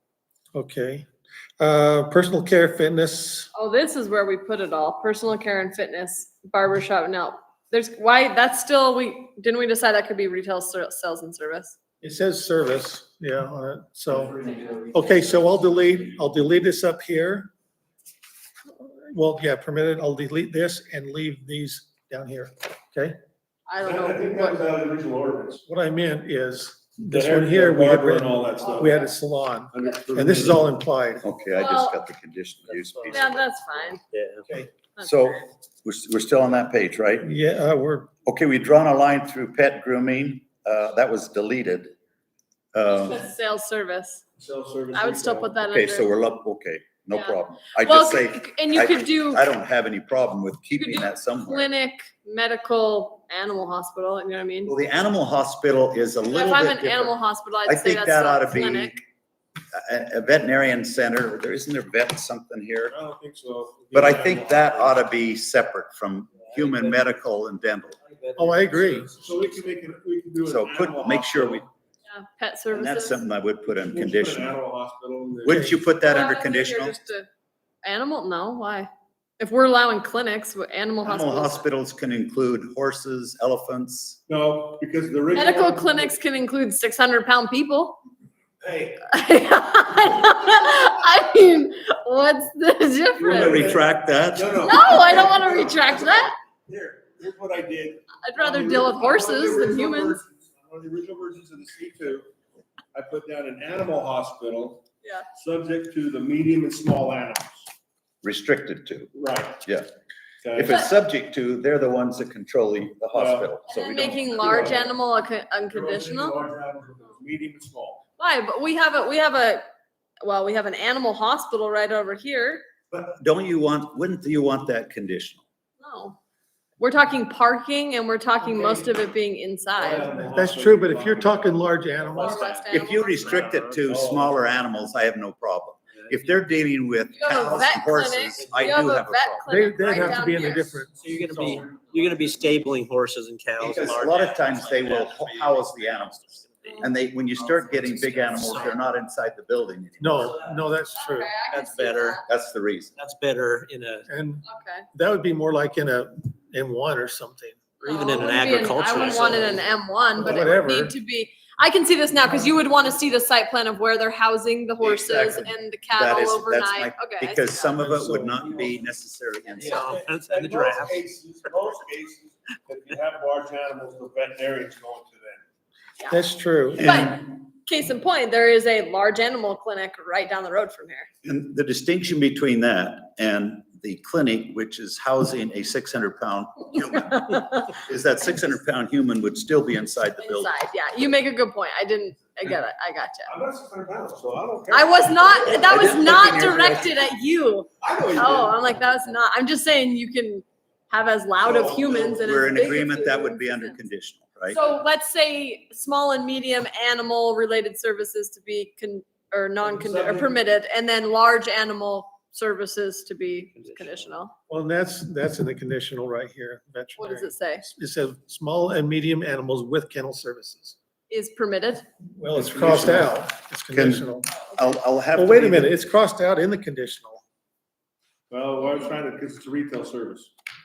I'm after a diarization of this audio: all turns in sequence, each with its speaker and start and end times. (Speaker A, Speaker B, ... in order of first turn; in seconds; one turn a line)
Speaker A: 0.5-1.1
Speaker A: 1.6-3.5
Speaker B: 3.5-11.8
Speaker A: 12.0-17.5
Speaker C: 14.1-15.4
Speaker A: 18.7-23.2
Speaker B: 23.7-24.4
Speaker D: 23.8-25.6
Speaker A: 25.6-31.2
Speaker D: 27.0-29.1
Speaker D: 29.7-30.7
Speaker E: 31.2-33.4
Speaker B: 31.5-32.0
Speaker B: 33.1-34.0
Speaker C: 34.1-34.4
Speaker B: 35.0-35.2
Speaker E: 35.0-37.3
Speaker A: 37.2-38.1
Speaker E: 38.2-41.9
Speaker E: 42.7-43.2
Speaker B: 42.9-44.2
Speaker D: 44.4-45.6
Speaker B: 44.9-46.1
Speaker E: 45.7-51.7
Speaker B: 47.1-49.5
Speaker B: 50.7-54.8
Speaker E: 54.6-59.0
Speaker B: 56.3-58.9
Speaker E: 59.7-62.9
Speaker D: 62.9-65.0
Speaker E: 63.9-68.0
Speaker C: 66.4-67.1
Speaker C: 68.0-69.7
Speaker A: 68.4-69.1
Speaker D: 69.1-71.7
Speaker E: 70.4-71.6
Speaker B: 72.1-73.2
Speaker E: 72.7-74.5
Speaker D: 73.7-75.7
Speaker E: 75.4-77.0
Speaker A: 75.5-75.7
Speaker B: 76.0-77.3
Speaker B: 77.8-81.6
Speaker E: 81.0-84.2
Speaker D: 84.3-86.1
Speaker B: 85.3-88.0
Speaker D: 88.6-89.0
Speaker B: 89.0-93.7
Speaker D: 93.2-102.3
Speaker E: 93.2-94.6
Speaker B: 94.6-96.3
Speaker B: 98.2-100.2
Speaker D: 102.9-104.8
Speaker D: 105.3-107.6
Speaker E: 108.2-109.1
Speaker D: 109.1-109.6
Speaker D: 110.4-110.8
Speaker E: 110.5-114.8
Speaker D: 113.1-113.5
Speaker B: 113.7-116.4
Speaker D: 114.4-114.9
Speaker D: 115.7-118.0
Speaker B: 118.2-119.6
Speaker B: 120.2-122.6
Speaker E: 122.9-125.4
Speaker B: 125.8-126.2
Speaker B: 126.8-130.1
Speaker D: 129.8-132.4
Speaker A: 130.2-132.5
Speaker B: 132.1-133.4
Speaker C: 132.3-134.2
Speaker E: 132.7-139.5
Speaker D: 133.6-134.3
Speaker B: 137.1-140.8
Speaker C: 138.4-138.8
Speaker A: 139.5-141.7
Speaker C: 140.9-148.8
Speaker E: 143.6-146.2
Speaker B: 146.6-146.9
Speaker E: 146.8-150.4
Speaker A: 150.0-151.3
Speaker B: 150.9-152.2
Speaker C: 151.5-152.2
Speaker E: 152.3-152.9
Speaker C: 153.0-154.1
Speaker A: 154.0-157.9
Speaker B: 154.4-154.9
Speaker B: 157.8-167.8
Speaker C: 157.8-159.6
Speaker A: 160.2-160.9
Speaker E: 164.8-169.9
Speaker A: 167.8-168.4
Speaker C: 169.6-171.0
Speaker D: 169.6-175.4
Speaker A: 176.1-177.0
Speaker E: 176.8-177.2
Speaker B: 176.8-181.1
Speaker E: 181.2-190.5
Speaker B: 187.2-187.6
Speaker B: 190.2-193.3
Speaker D: 193.3-196.1
Speaker B: 194.7-203.8
Speaker E: 195.4-196.9
Speaker D: 197.8-198.8
Speaker D: 201.4-202.7
Speaker E: 202.2-204.6
Speaker B: 204.5-214.3
Speaker D: 209.6-210.4
Speaker A: 214.5-220.8
Speaker B: 217.0-217.6
Speaker B: 221.1-221.8
Speaker A: 222.2-224.3
Speaker D: 222.3-223.1
Speaker E: 222.6-223.0
Speaker E: 223.7-225.7
Speaker A: 225.1-227.2
Speaker D: 228.3-230.3